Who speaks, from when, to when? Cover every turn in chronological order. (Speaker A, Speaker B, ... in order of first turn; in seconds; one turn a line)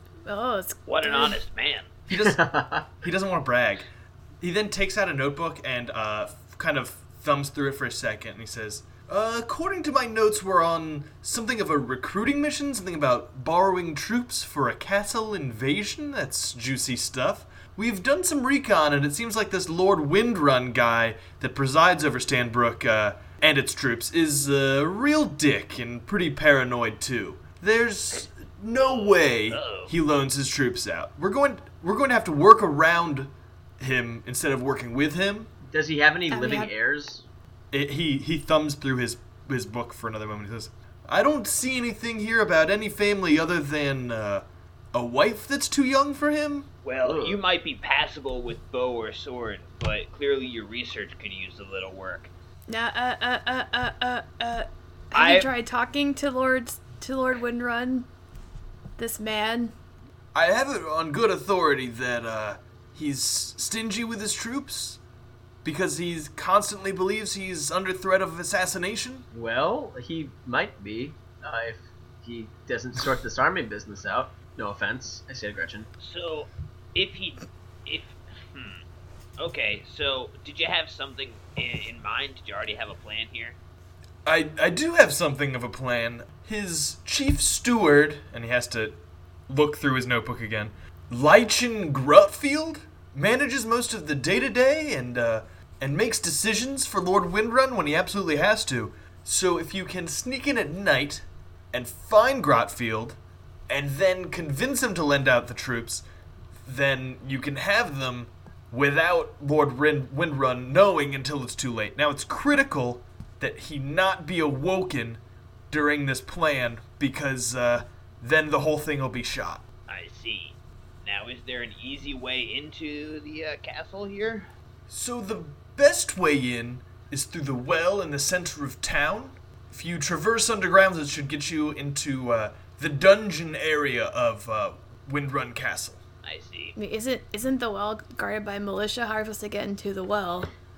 Speaker A: 0.2-1.4
Speaker B: 0.9-1.9
Speaker C: 2.1-2.4
Speaker D: 2.1-2.9
Speaker C: 3.0-3.9
Speaker C: 4.4-35.5
Speaker B: 29.5-29.9
Speaker D: 35.6-37.2
Speaker A: 36.3-36.7
Speaker C: 37.7-46.7
Speaker B: 46.8-52.3
Speaker D: 47.0-47.4
Speaker A: 52.7-58.1
Speaker B: 55.1-55.5
Speaker A: 59.0-59.7
Speaker C: 60.3-65.0
Speaker C: 65.6-69.3
Speaker D: 69.3-75.9
Speaker B: 76.0-78.8
Speaker B: 79.4-83.6
Speaker C: 84.2-103.2
Speaker C: 103.7-106.0
Speaker C: 106.6-119.6
Speaker B: 119.9-124.5
Speaker C: 124.9-136.0
Speaker B: 136.2-136.7
Speaker A: 136.8-140.5